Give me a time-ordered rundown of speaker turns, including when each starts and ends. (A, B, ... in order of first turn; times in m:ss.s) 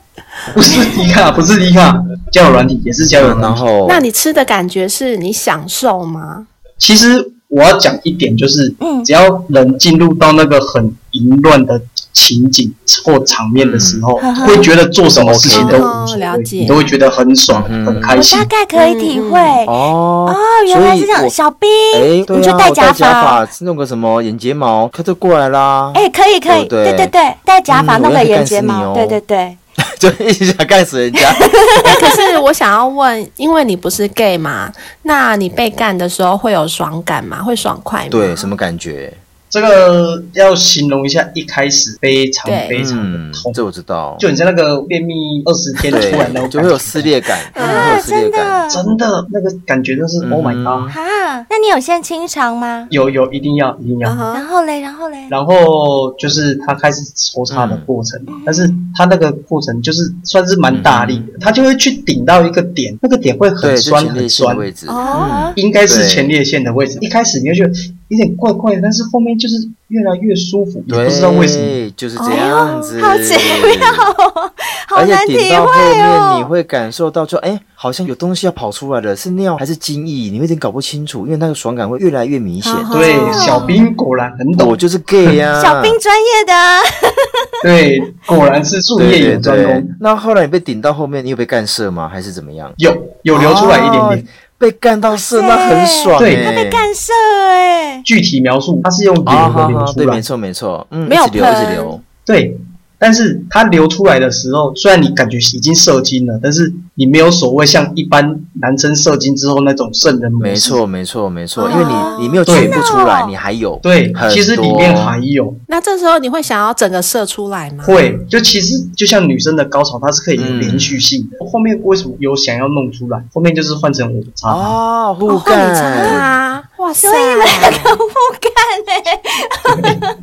0:00.5-0:03.6 A
0:03.2-0:04.1 B
0:03.8-0:06.5 C
0:06.8-0:18.5 A
0:08.8-0:09.1 D
0:13.6-0:14.1 B
0:14.2-0:14.7 D
0:15.1-0:15.9 B
0:15.5-0:16.9 C
0:17.5-0:18.2 B
0:18.1-0:19.8 D
0:18.8-0:19.6 C
0:19.7-0:21.3 B
0:20.3-0:23.4 D
0:21.9-0:27.1 B
0:25.9-0:29.6 D
0:27.7-0:29.2 B
0:30.0-0:32.0 B
0:31.3-0:32.4 D
0:31.9-0:38.5 C
0:38.1-0:39.2 B
0:39.5-0:43.6 A
0:42.4-0:42.8 C
0:42.7-0:44.3 B
0:44.2-0:47.1 A
0:45.9-0:48.7 B
0:47.6-0:48.0 C
0:47.6-0:48.8 D
0:48.7-0:50.9 A
0:50.2-0:51.0 B
0:50.9-0:52.9 D
0:52.9-0:54.2 A
0:54.0-0:54.4 C
0:54.3-0:55.3 D
0:55.3-1:04.7 A
0:57.5-0:57.9 B
0:58.3-0:58.8 D
1:00.7-1:01.3 B
1:03.6-1:06.3 B
1:04.9-1:05.3 C
1:05.0-1:05.6 D
1:05.6-1:11.8 A
1:10.9-1:14.0 B
1:12.2-1:12.9 C
1:12.3-1:16.5 D
1:14.9-1:22.9 B
1:22.6-1:23.8 C
1:22.9-1:25.4 A
1:23.1-1:23.8 D
1:24.6-1:26.0 B
1:25.6-1:27.3 D
1:27.6-1:29.9 A
1:29.0-1:32.8 B
1:32.8-1:34.3 A
1:33.3-1:36.9 B
1:35.1-1:38.1 D
1:36.2-1:36.5 A
1:38.0-1:40.2 A
1:39.2-1:42.0 B
1:41.1-1:41.9 C
1:42.3-1:50.8 A
1:50.4-1:55.2 B
1:51.6-1:53.4 D
1:51.7-1:52.4 C
1:52.5-1:52.8 A
1:53.8-1:55.6 A
1:55.7-1:58.0 C
1:57.8-2:04.8 A
2:00.4-2:01.0 B
2:04.5-2:06.3 B
2:05.3-2:08.0 C
2:05.4-2:06.2 D
2:07.0-2:10.1 D
2:09.7-2:10.0 A